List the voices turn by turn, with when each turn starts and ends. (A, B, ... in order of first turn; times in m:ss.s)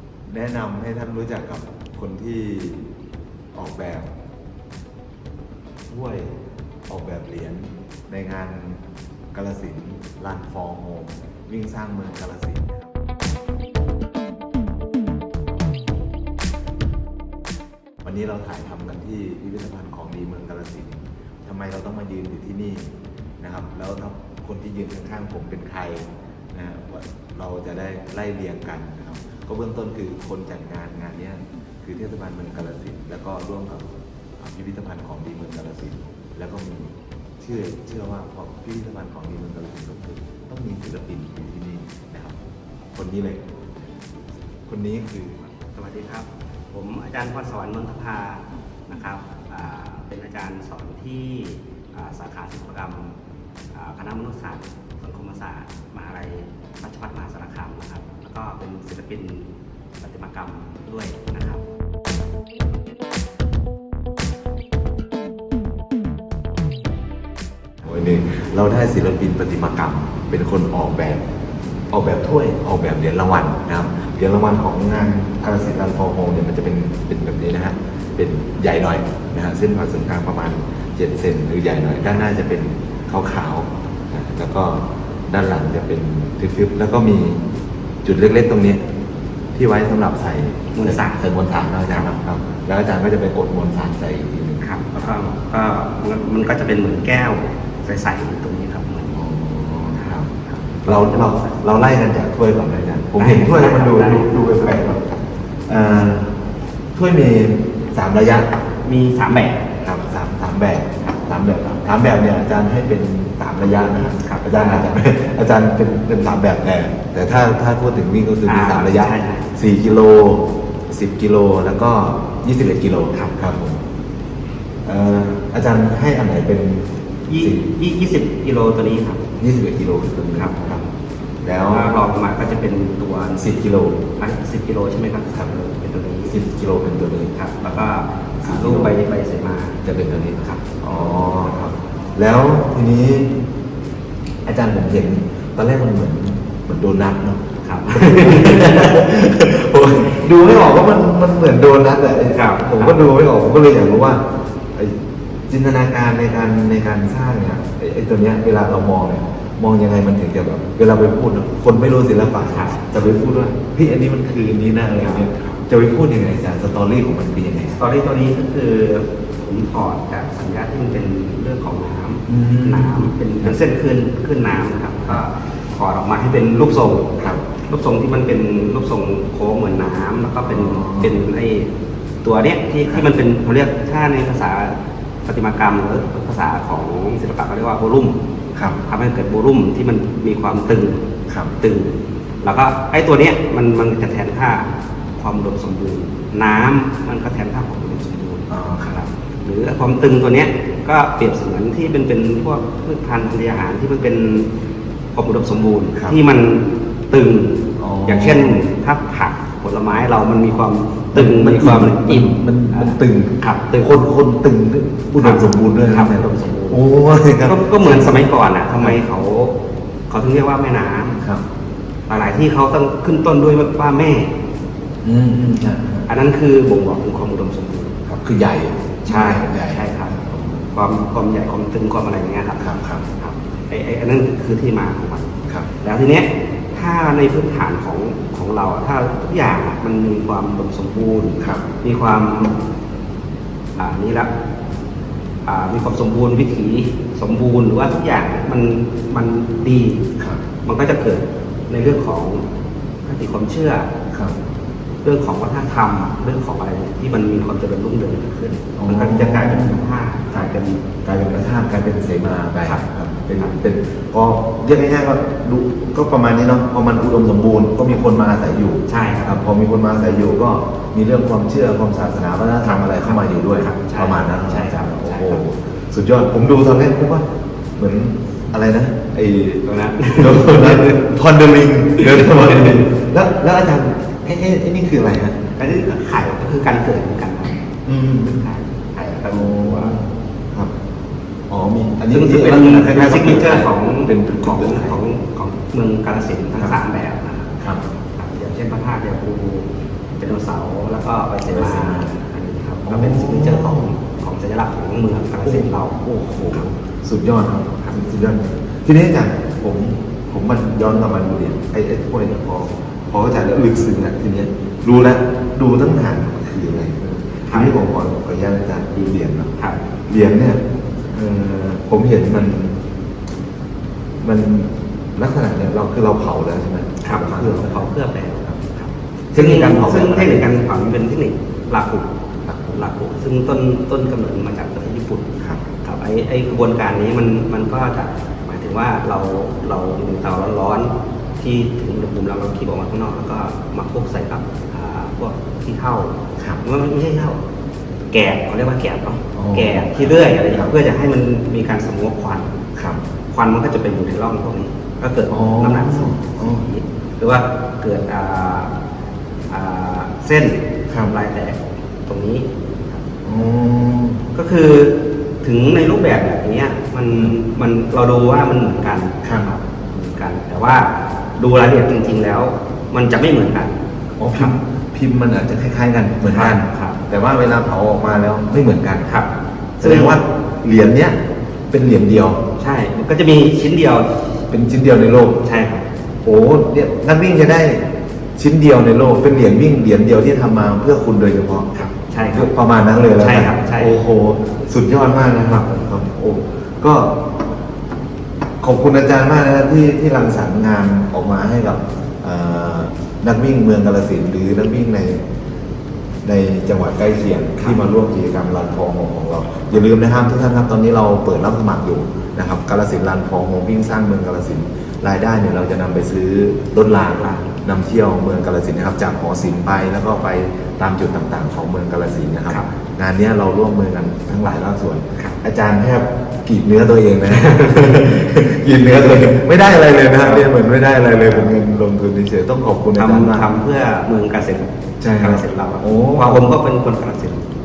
0:00.3-0:02.9 A
0:03.5-0:04.1 A
0:05.9-0:08.8 A
0:09.3-0:13.0 A
0:18.0-0:42.4 A
0:42.9-0:43.4 A
0:44.7-0:45.4 A
0:45.5-0:53.2 B
0:53.8-1:01.7 B
1:07.8-1:11.2 A
1:11.9-1:27.4 A
1:28.0-1:28.9 A
1:29.6-1:35.3 A
1:30.7-1:31.2 B
1:34.6-1:39.2 B
1:39.1-1:45.1 A
1:40.7-1:41.7 B
1:43.2-1:44.6 B
1:45.7-1:46.4 A
1:47.0-1:48.5 A
1:48.8-1:49.6 B
1:49.8-2:03.8 A
1:54.2-1:54.9 B
1:58.4-1:59.5 B
2:03.1-2:03.4 B
2:04.8-2:06.9 A
2:07.3-2:09.2 B
2:07.4-2:07.7 A
2:09.4-2:10.8 A
2:10.3-2:10.9 B
2:11.4-2:11.9 A
2:11.7-2:13.6 B
2:13.4-2:14.0 A
2:14.2-2:16.3 B
2:16.3-2:17.9 A
2:17.3-2:19.8 B
2:18.4-2:19.0 A
2:19.8-2:23.5 A
2:20.9-2:21.3 B
2:24.4-2:34.2 A
2:27.6-2:29.1 B
2:32.3-2:33.1 B
2:34.7-2:47.8 A
2:42.4-2:42.8 B
2:45.0-2:45.3 B
2:47.7-3:01.7 B
2:52.3-2:53.6 A
2:57.2-2:57.5 A
3:00.4-3:01.2 A
3:02.2-3:08.2 B
3:08.5-3:08.8 A
3:08.9-3:11.1 B
3:11.3-3:11.5 A
3:11.6-3:24.5 B
3:18.5-3:19.0 A
3:25.1-3:34.0 B
3:25.9-3:26.2 A
3:27.8-3:28.6 A
3:31.1-3:39.0 A
3:35.2-3:39.6 B
3:40.1-3:41.2 B
3:42.1-3:44.3 B
3:45.0-3:46.1 A
3:46.1-3:48.0 B
3:48.1-3:50.7 A
3:49.1-3:55.3 B
3:52.6-3:53.1 A
3:55.8-4:02.6 B
4:03.8-4:04.3 B
4:05.4-4:10.0 B
4:10.2-4:10.4 A
4:10.6-4:12.4 B
4:13.0-4:13.9 B
4:14.1-4:14.4 A
4:15.0-4:20.8 B
4:18.8-4:19.8 A
4:21.0-4:37.2 A
4:22.6-4:23.6 B
4:28.9-4:29.4 B
4:32.6-4:35.4 B
4:37.8-4:45.5 A
4:39.6-4:41.0 B
4:42.0-4:42.8 B
4:45.6-4:47.6 B
4:47.9-4:48.4 A
4:48.2-4:50.0 B
4:49.3-4:50.7 A
4:51.5-4:55.0 A
4:52.1-4:57.5 B
4:57.6-4:57.8 A
4:58.2-5:06.0 B
5:01.5-5:02.2 A
5:02.9-5:03.9 A
5:05.4-5:19.5 A
5:17.5-5:17.8 B
5:19.6-5:19.8 B
5:20.1-5:22.8 A
5:24.2-5:27.9 A
5:27.0-5:32.1 B
5:29.3-5:30.6 A
5:32.4-5:32.8 A
5:32.7-5:47.4 B
5:48.1-5:52.6 B
5:49.4-5:50.7 A
5:52.8-5:53.0 A
5:53.3-5:58.7 B
5:55.3-5:56.6 A
5:59.5-6:03.0 B
6:00.9-6:01.2 A
6:03.2-6:04.2 A
6:04.3-6:13.8 B
6:09.2-6:09.5 A
6:14.2-6:19.1 A
6:16.2-6:17.0 B
6:19.1-6:20.2 B
6:19.8-6:21.2 A
6:21.7-6:22.4 A
6:22.6-6:24.2 B
6:24.5-6:25.4 A
6:25.4-6:25.9 B
6:26.2-6:31.7 A
6:31.7-6:32.5 B
6:32.3-6:37.3 A
6:33.1-6:33.9 B
6:38.6-6:45.2 A
6:46.2-7:13.5 A
7:07.3-7:08.3 B
7:10.1-7:10.5 B
7:11.2-7:11.6 B
7:13.0-7:17.4 B
7:15.0-7:16.6 A